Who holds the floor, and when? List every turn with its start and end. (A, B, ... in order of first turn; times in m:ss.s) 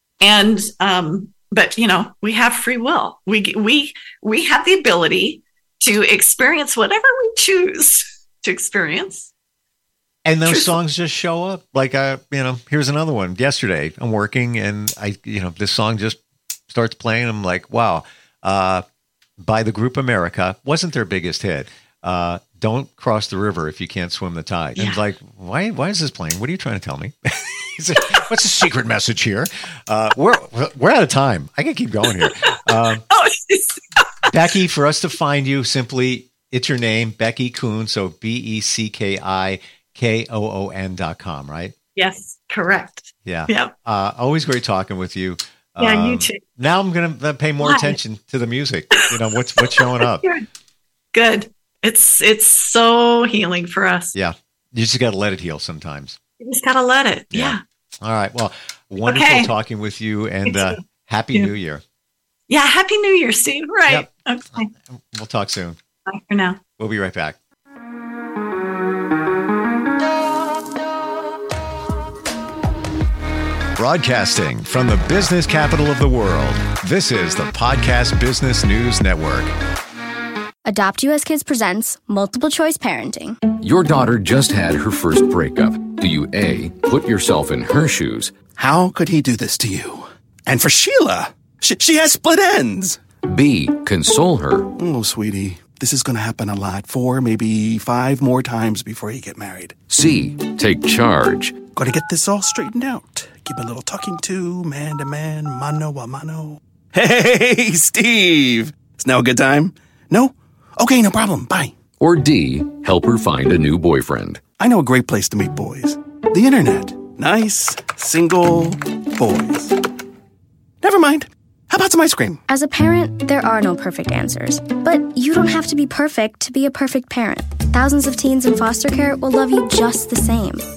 0:00.2-0:09.3 A
0:10.2-0:16.2 B
0:10.4-0:10.8 A
0:16.7-0:18.8 B
0:19.4-0:33.0 B
0:24.8-0:25.0 A
0:32.2-0:32.5 A
0:33.1-0:34.2 A
0:34.2-0:41.7 B
0:42.0-0:43.7 A
0:43.2-0:50.2 B
0:45.8-0:46.4 A
0:47.6-0:48.0 A
0:49.0-0:50.4 A
0:51.1-0:54.1 A
0:54.1-0:56.2 B
0:56.4-0:57.6 A
0:57.3-1:01.8 B
0:59.0-0:59.5 A
1:00.4-1:00.8 A
1:02.5-1:04.7 A
1:04.7-1:05.8 B
1:06.1-1:06.6 A
1:06.8-1:07.4 B
1:13.8-1:19.5 B
1:20.6-1:23.4 C
1:23.6-1:28.3 D
1:28.5-1:33.0 E
1:33.2-1:34.7 D
1:34.8-1:39.9 E
1:39.9-1:41.5 D
1:41.7-1:51.8 E
1:52.0-1:54.4 D
1:54.6-1:59.7 E
2:00.8-2:02.4 E
2:02.5-2:10.6 C